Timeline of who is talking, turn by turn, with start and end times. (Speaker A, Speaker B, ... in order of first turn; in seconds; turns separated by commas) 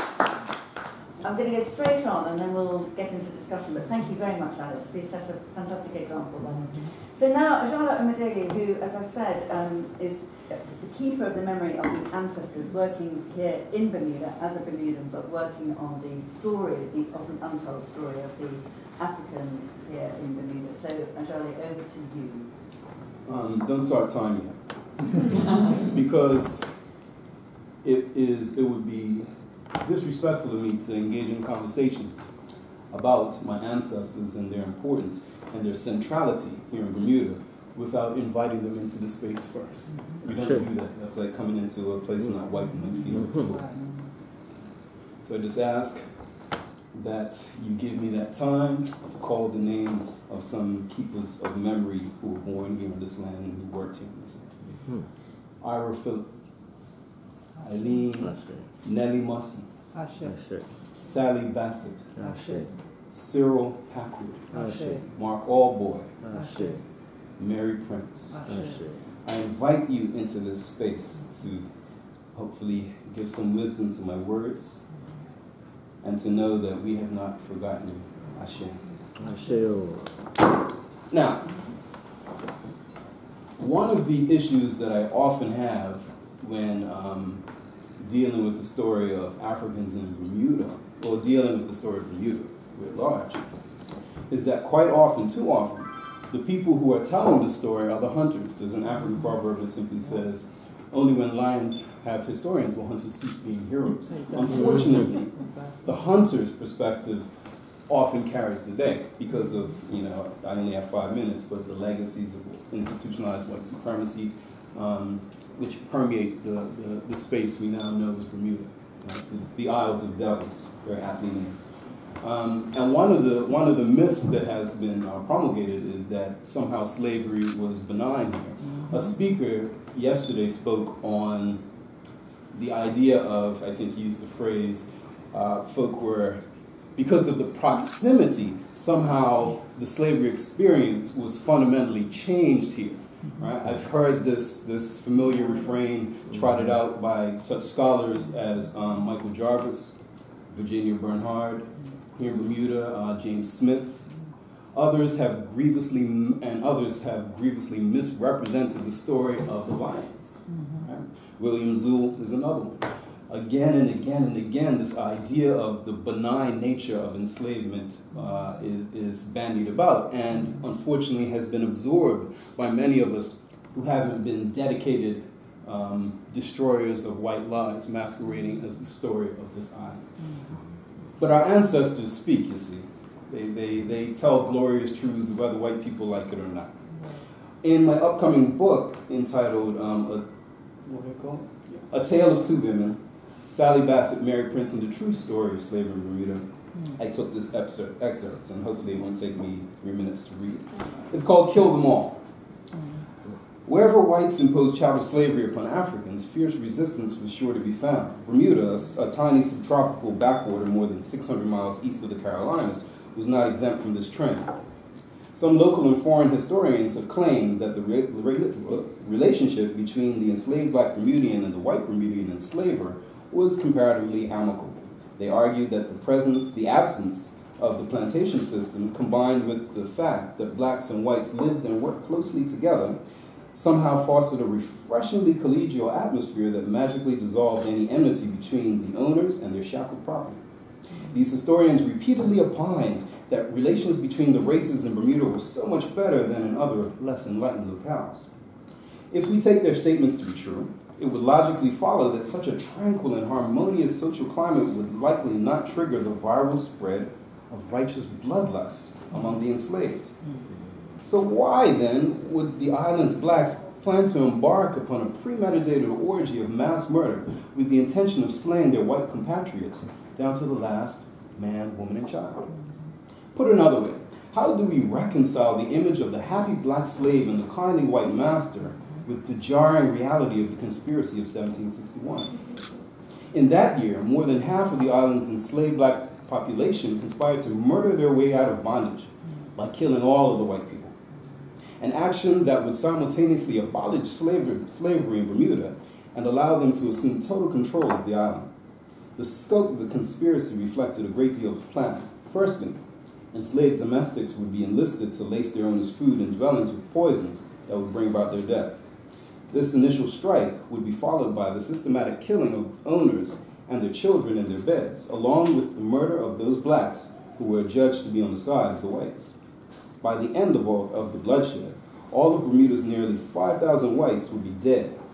Speaker A: 1.2-22.5, Speaker B: 23.2-26.7, Speaker B: 27.8-29.3, Speaker B: 29.8-32.1, Speaker B: 32.9-43.7, Speaker C: 40.2-40.7, Speaker C: 43.1-43.5, Speaker B: 45.2-46.3, Speaker B: 46.9-54.5, Speaker C: 54.8-55.1, Speaker B: 55.6-56.3, Speaker B: 57.6-59.7, Speaker C: 58.2-58.6, Speaker C: 60.2-60.7, Speaker B: 61.0-62.3, Speaker C: 62.1-62.7, Speaker B: 63.1-66.2, Speaker C: 64.5-65.0, Speaker C: 66.2-66.8, Speaker B: 67.4-68.5, Speaker C: 68.4-69.0, Speaker B: 69.2-71.7, Speaker B: 72.3-74.8, Speaker B: 76.0-78.8, Speaker C: 79.2-80.1, Speaker B: 81.1-81.5, Speaker B: 83.6-87.4, Speaker B: 88.0-93.4, Speaker B: 94.3-107.3, Speaker B: 107.9-121.6, Speaker B: 122.2-131.6, Speaker B: 132.5-136.4, Speaker B: 136.9-149.9, Speaker B: 150.5-154.1, Speaker B: 154.7-180.1, Speaker B: 181.2-186.7, Speaker B: 187.6-190.2, Speaker B: 190.8-202.2, Speaker B: 203.6-214.5, Speaker B: 215.3-233.0, Speaker B: 233.5-240.4, Speaker B: 241.1-248.3, Speaker B: 249.1-260.1, Speaker B: 261.0-272.5, Speaker B: 273.3-282.4, Speaker B: 283.3-290.9, Speaker B: 291.8-298.5, Speaker B: 299.1-302.8, Speaker B: 303.3-308.8, Speaker B: 309.5-319.3, Speaker B: 320.0-325.0